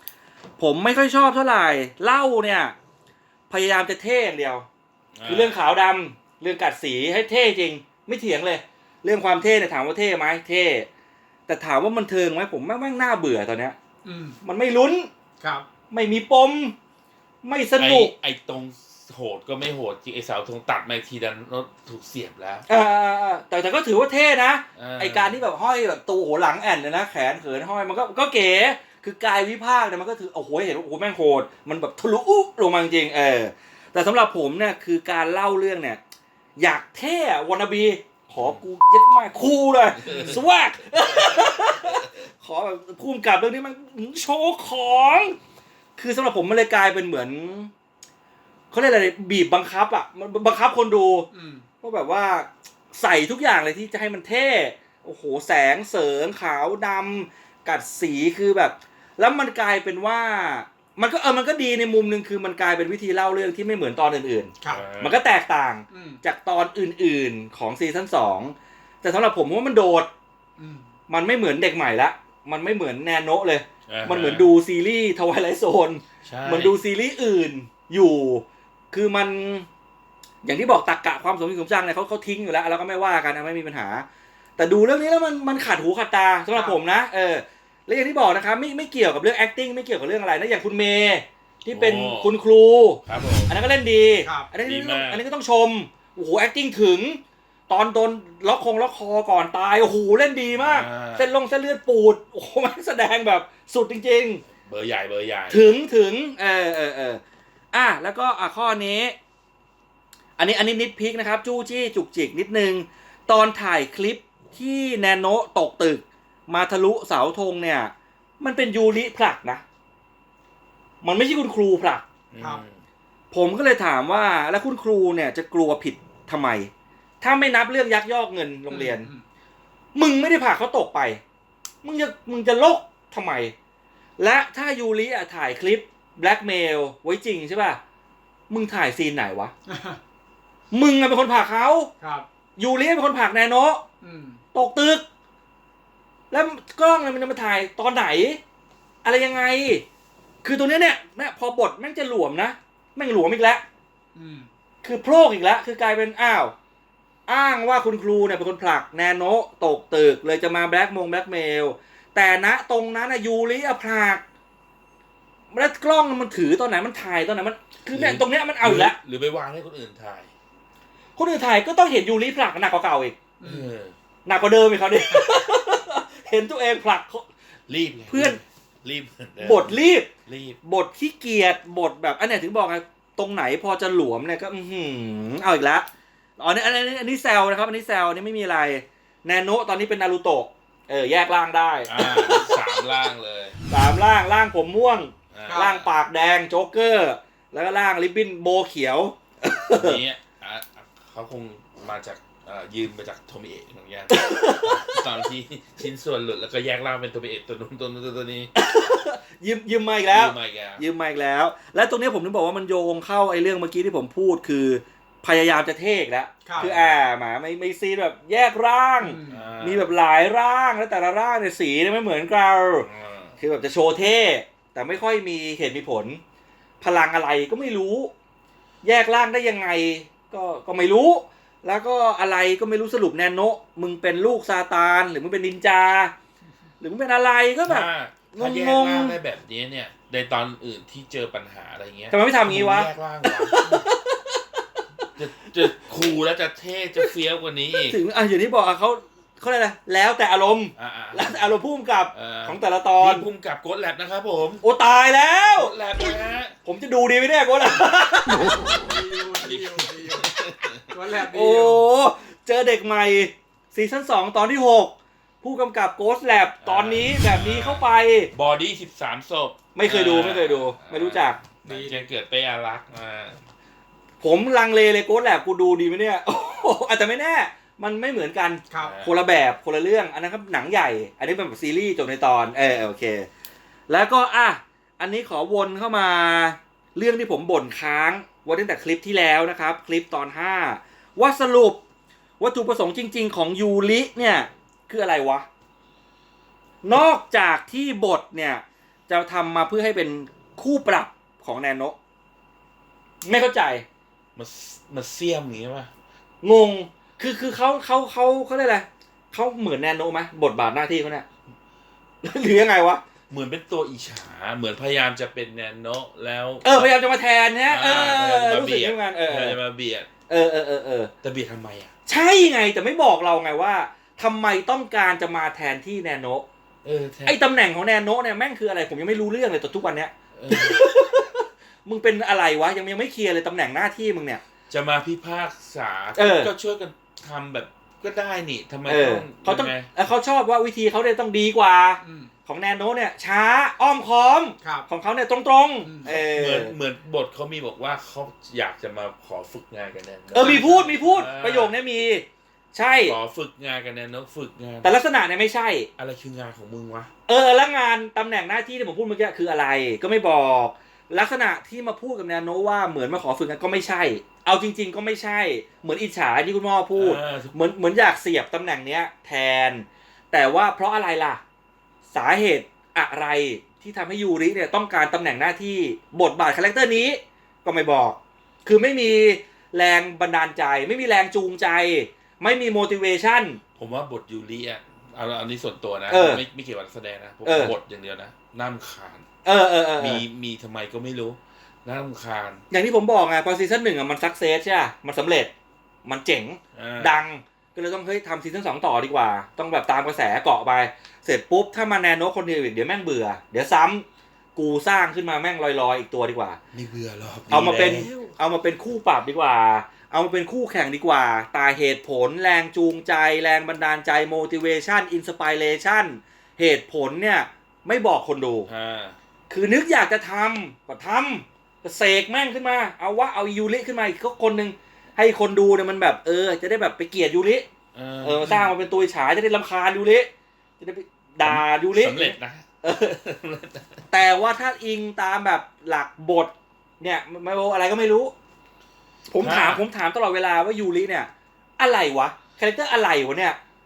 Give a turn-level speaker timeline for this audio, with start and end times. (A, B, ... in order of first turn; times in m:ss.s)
0:00.6-0:02.8 A
0:03.5-0:04.6 A
0:05.2-0:05.6 B
0:05.3-0:10.9 A
0:11.5-0:13.8 A
0:14.0-0:14.4 C
0:14.4-0:15.1 A
0:15.4-0:15.6 C
0:15.9-0:16.8 A
0:17.4-0:18.1 A
0:17.8-0:22.6 B
0:22.7-0:36.0 A
0:24.8-0:25.4 B
0:36.6-0:45.4 A
0:40.0-0:40.4 B
0:41.1-0:42.1 B
0:46.0-0:47.7 A
0:48.7-0:51.3 A
0:51.3-0:51.6 C
0:51.8-1:10.1 A
1:04.7-1:05.2 B
1:05.9-1:06.2 C
1:10.6-1:10.9 C
1:11.1-1:19.7 A
1:13.9-1:14.5 B
1:16.2-1:16.8 B
1:20.4-1:24.0 A
1:24.6-1:44.4 A
1:31.7-1:32.3 B
1:33.1-1:33.5 B
1:34.2-1:34.5 C
1:34.6-1:35.2 B
1:40.5-1:41.3 B
1:44.6-1:45.7 B
1:45.5-1:47.2 A
1:47.7-1:49.1 A
1:50.4-1:59.6 A
2:01.0-2:02.1 A
2:02.3-2:02.8 B
2:02.4-2:02.6 C
2:03.3-2:06.7 A
2:07.2-2:09.1 A
2:08.7-2:09.2 C
2:10.0-2:11.2 A
2:11.8-2:13.5 A
2:14.2-2:17.8 A
2:18.5-2:19.5 A
2:19.7-2:20.0 C
2:20.7-2:21.9 A
2:22.0-2:22.2 C
2:22.6-2:23.8 A
2:24.0-2:24.4 C
2:24.5-2:25.0 A
2:26.3-2:28.4 A
2:29.0-2:29.8 A
2:30.4-2:33.6 A
2:34.1-2:34.5 C
2:34.8-2:36.5 A
2:37.3-2:44.2 A
2:45.5-2:49.0 A
2:47.9-2:50.3 B
2:51.2-2:53.2 A
2:53.4-2:53.7 C
2:53.4-2:54.0 B
2:54.2-2:57.3 A
2:57.7-3:00.6 B
2:58.1-2:58.4 A
2:59.4-3:00.1 A
3:00.6-3:05.9 A
3:06.4-3:12.8 A
3:11.9-3:13.6 B
3:13.7-3:20.0 A
3:15.3-3:15.9 B
3:15.5-3:15.7 C
3:19.8-3:28.5 B
3:24.1-3:25.0 A
3:28.5-3:42.9 A
3:30.1-3:30.8 B
3:36.4-3:36.7 C
3:36.6-3:37.0 B
3:39.0-3:39.4 C
3:39.3-3:39.9 B
3:42.8-3:43.4 B
3:43.4-3:46.2 A
3:46.8-3:48.1 A
3:48.8-3:56.1 A
3:56.8-3:59.2 A
3:57.6-4:03.5 B
4:02.1-4:04.6 A
4:05.2-4:08.0 B
4:07.9-4:13.3 A
4:10.8-4:11.5 B
4:12.1-4:14.6 B
4:14.6-4:15.8 A
4:15.5-4:16.6 B
4:16.6-4:18.6 A
4:18.7-4:21.8 C
4:19.3-4:21.0 B
4:21.3-4:28.3 A
4:26.6-4:33.4 B
4:29.8-4:31.4 A
4:31.6-4:32.0 C
4:34.2-4:43.3 A
4:38.8-4:39.1 B
4:43.9-4:51.8 A
4:52.4-4:55.5 A
4:56.8-5:02.0 A
5:03.2-5:03.8 A
5:04.4-5:05.9 B
5:06.4-5:11.2 A
5:12.2-5:13.0 A
5:13.3-5:17.0 B
5:16.6-5:19.6 A
5:17.7-5:20.1 B
5:20.3-5:21.1 A
5:21.2-5:21.9 B
5:22.1-5:26.5 A
5:26.8-5:27.4 B
5:27.2-5:34.4 A
5:30.4-5:30.8 B
5:34.7-5:39.9 B
5:36.2-5:36.5 A
5:38.9-5:46.7 A
5:42.0-5:42.3 C
5:45.8-5:46.2 C
5:46.0-5:51.8 B
5:50.3-5:53.2 A
5:50.3-5:51.0 C
5:53.0-5:55.0 B
5:54.8-5:55.9 A
5:56.0-5:57.1 B
5:57.3-6:11.4 A
6:07.0-6:07.5 B
6:12.1-6:23.6 A
6:23.8-6:29.2 B
6:26.1-6:26.4 A
6:27.4-6:27.7 A
6:29.4-6:30.2 A
6:30.0-6:32.6 B
6:32.7-6:35.5 A
6:36.0-6:44.0 A
6:36.7-6:37.2 B
6:44.6-6:46.6 A
6:46.7-6:48.3 B
6:47.5-6:58.7 A
6:58.7-6:59.2 B
6:59.5-7:07.7 A
7:07.9-7:08.7 B
7:08.2-7:10.3 A
7:10.8-7:13.1 A
7:11.4-7:14.0 B
7:14.1-7:18.3 A
7:19.3-7:23.6 A
7:19.4-7:19.8 B